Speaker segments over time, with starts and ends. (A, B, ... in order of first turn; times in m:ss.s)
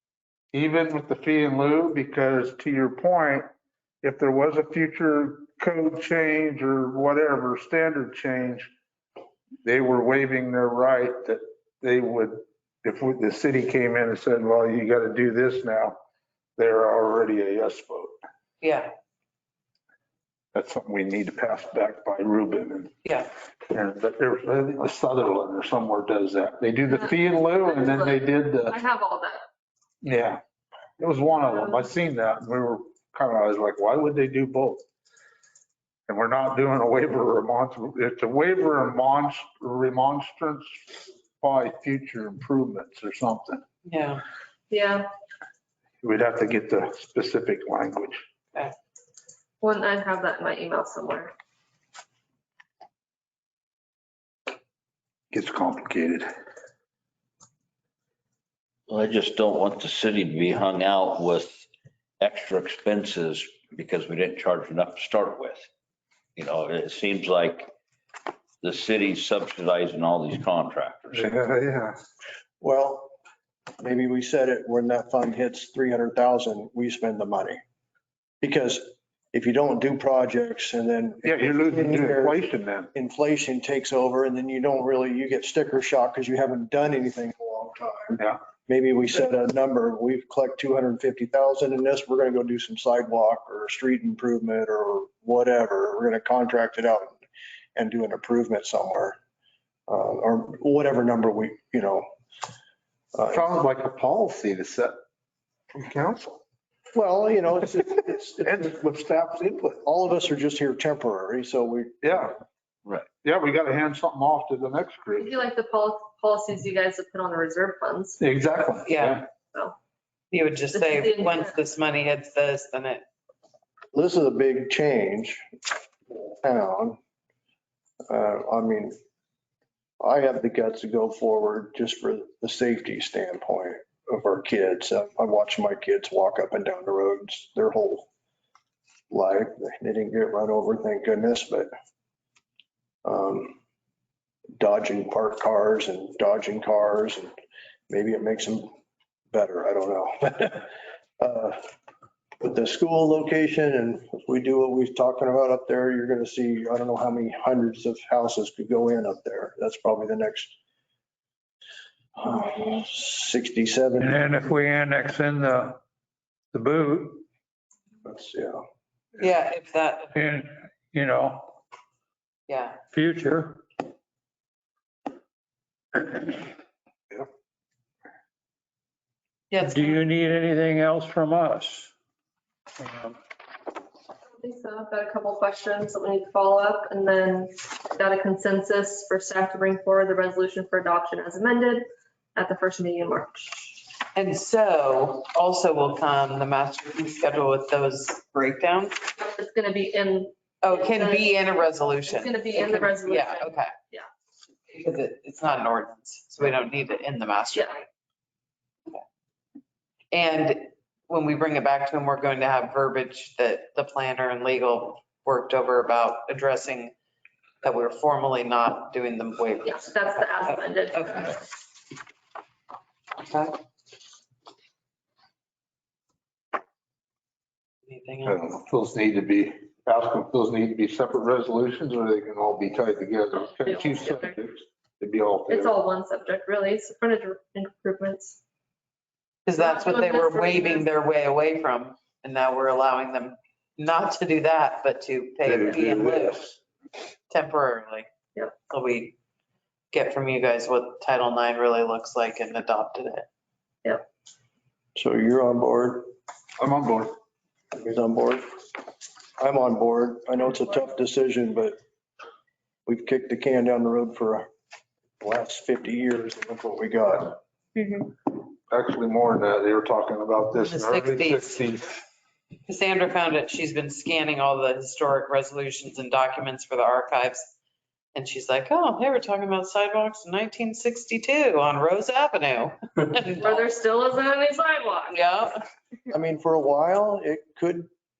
0:00.5-0:03.5 A
0:04.0-0:08.7 A
0:09.6-0:16.0 A
0:16.6-0:18.1 A
0:18.6-0:18.9 B
0:20.5-0:23.0 A
0:23.0-0:23.3 B
0:23.7-0:28.8 A
0:26.9-0:29.4 C
0:30.0-0:30.4 A
0:31.0-0:34.8 A
0:36.1-0:40.8 A
0:41.4-0:43.6 A
0:43.8-0:44.2 B
0:44.7-0:45.1 C
0:46.0-0:48.2 A
0:49.6-0:51.3 C
0:55.3-0:56.3 A
0:58.9-1:01.6 D
1:02.2-1:05.7 D
1:06.4-1:07.7 D
1:08.6-1:11.4 D
1:11.1-1:12.0 A
1:12.6-1:13.1 E
1:13.8-1:17.6 E
1:18.4-1:22.4 E
1:21.2-1:22.9 A
1:23.0-1:37.2 E
1:37.8-1:39.2 E
1:39.9-1:42.1 E
1:43.1-1:43.5 E
1:43.3-1:45.0 A
1:45.7-1:46.4 A
1:46.9-1:48.7 E
1:48.4-1:49.8 A
1:49.8-1:52.3 E
1:52.0-1:52.4 A
1:53.2-1:55.3 A
1:55.2-1:58.2 C
1:58.2-1:59.2 A
1:58.9-1:59.2 B
2:00.3-2:03.0 B
2:00.7-2:01.5 C
2:03.9-2:05.4 E
2:06.4-2:07.0 E
2:08.0-2:08.9 E
2:10.0-2:18.1 E
2:19.1-2:21.7 E
2:23.0-2:23.6 E
2:24.6-2:27.3 E
2:27.9-2:28.7 E
2:29.3-2:31.6 E
2:32.4-2:40.5 E
2:42.2-2:44.2 E
2:44.0-2:45.8 F
2:46.5-2:47.2 F
2:48.0-2:48.6 E
2:49.2-2:50.1 B
2:50.2-2:51.6 F
2:52.5-2:52.8 B
2:52.9-2:53.6 F
2:59.5-3:00.1 B
2:59.6-3:01.9 F
3:02.8-3:03.2 F
3:04.3-3:13.8 C
3:14.1-3:19.0 B
3:19.2-3:21.4 C
3:20.6-3:23.7 B
3:22.1-3:24.1 C
3:24.7-3:27.8 B
3:30.1-3:36.9 B
3:37.6-3:41.4 B
3:39.7-3:41.4 C
3:43.2-3:43.6 B
3:47.9-3:48.4 B
3:48.2-3:55.7 A
3:53.7-3:54.3 C
3:55.5-3:58.4 C
3:59.5-4:06.4 B
3:59.6-4:00.9 C
4:05.5-4:06.6 A
4:07.3-4:08.1 B
4:08.6-4:09.2 B
4:09.9-4:13.3 B
4:15.0-4:16.1 E
4:16.6-4:17.2 A
4:17.7-4:18.5 E
4:19.4-4:21.8 E
4:22.9-4:24.5 E
4:25.2-4:27.4 E
4:28.7-4:31.9 A
4:30.6-4:31.6 B
4:32.7-4:37.5 B
4:38.2-4:43.7 B
4:43.4-4:45.2 C
4:45.1-4:45.6 B
4:46.1-4:47.9 E